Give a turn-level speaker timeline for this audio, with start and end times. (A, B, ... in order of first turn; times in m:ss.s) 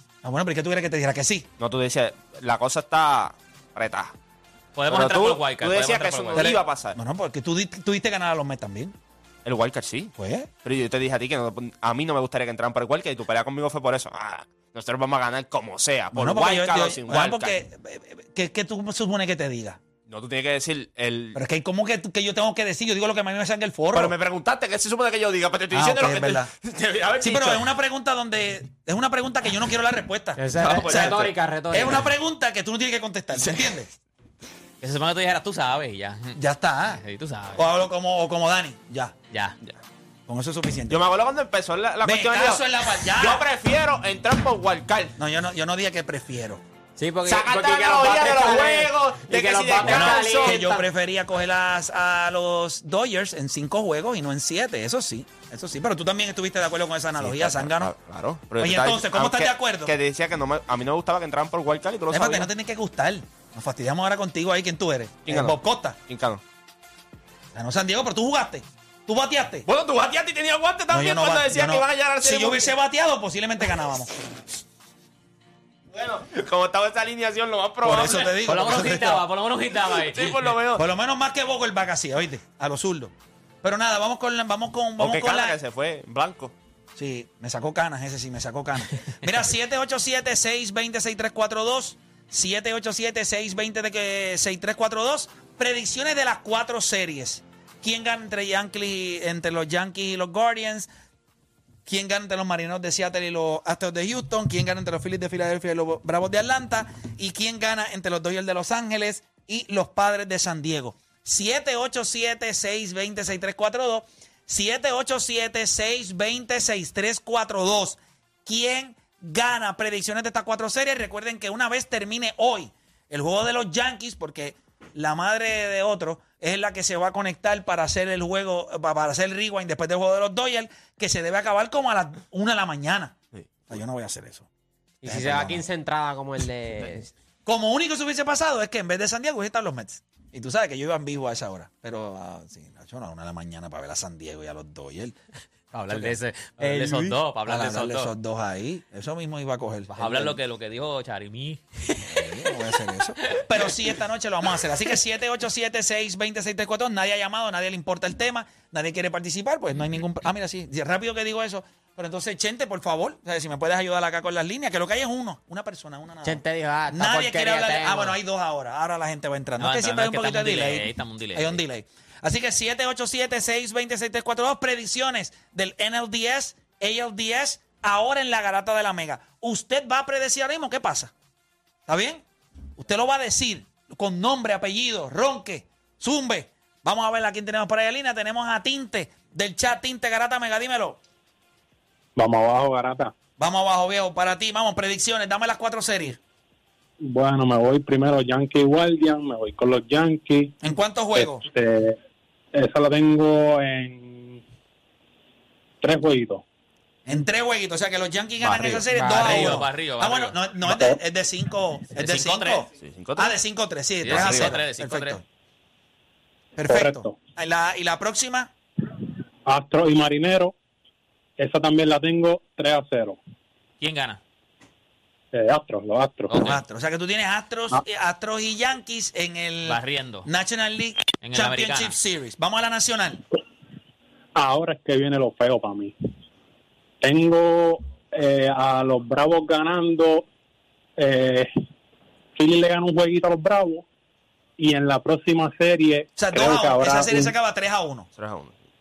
0:00.2-0:01.5 A
0:01.6-0:04.1 B
0:04.7-0:06.5 C
0:04.9-0:07.0 B
0:06.4-0:08.9 A
0:09.4-0:17.6 B
0:10.2-0:10.5 A
0:16.1-0:19.8 A
0:20.1-0:21.4 B
0:21.4-0:24.1 A
0:23.9-0:27.7 B
0:25.7-0:26.5 A
0:27.2-0:33.9 A
0:30.4-0:32.1 D
0:30.6-0:31.3 B
0:33.3-0:33.8 B
0:34.8-0:36.4 C
0:36.3-0:37.0 A
0:36.9-0:37.6 C
0:37.5-0:39.1 A
0:39.3-0:39.6 C
0:40.3-0:41.0 A
0:40.9-0:45.1 B
0:42.0-0:43.5 A
0:45.2-0:46.6 A
0:47.0-0:50.8 D
0:47.2-0:50.6 B
0:49.8-0:57.9 A
0:57.2-1:02.5 B
0:58.6-0:59.9 A
1:02.1-1:06.0 A
1:05.2-1:06.4 B
1:07.5-1:09.7 A
1:09.6-1:12.7 B
1:10.9-1:14.1 A
1:15.9-1:18.5 B
1:17.8-1:19.2 A
1:18.4-1:20.5 C
1:20.0-1:20.8 B
1:20.7-1:23.1 A
1:23.6-1:25.6 A
1:25.0-1:26.5 B
1:27.0-1:40.9 A
1:41.8-2:13.2 A
2:13.3-2:13.6 B
2:13.7-2:14.5 A
2:15.0-2:17.1 D
2:15.0-2:15.6 A
2:17.4-2:25.2 A
2:25.7-2:28.1 C
2:25.9-2:26.2 A
2:27.5-2:30.4 A
2:29.9-2:32.5 C
2:32.0-3:01.1 A
2:46.2-2:48.2 D
2:49.6-2:51.6 C
3:01.9-3:02.2 A
3:02.8-3:11.0 A
3:12.2-3:13.1 E
3:13.4-3:16.2 A
3:17.0-3:22.0 E
3:20.6-3:21.4 A
3:22.5-3:24.4 E
3:25.8-3:26.4 E
3:27.0-3:35.2 A
3:28.4-3:28.8 B
3:28.9-3:29.5 D
3:28.9-3:30.3 C
3:30.6-3:31.0 E
3:31.9-3:32.7 C
3:32.7-3:33.4 B
3:34.0-3:35.2 C
3:34.0-3:34.6 B
3:36.6-3:38.5 A
3:36.7-3:37.2 E
3:39.4-3:40.5 E
3:41.4-3:43.2 E
3:43.8-3:44.2 C
3:45.3-3:46.5 E
3:46.3-3:46.6 C
3:46.3-3:53.2 A
3:49.6-3:50.3 C
3:51.2-3:52.0 C
3:54.3-3:55.9 E
3:57.0-4:00.2 E
4:01.0-4:01.5 E
4:02.4-4:03.8 E
4:04.6-4:07.3 E
4:06.2-4:08.1 A
4:08.2-4:08.5 B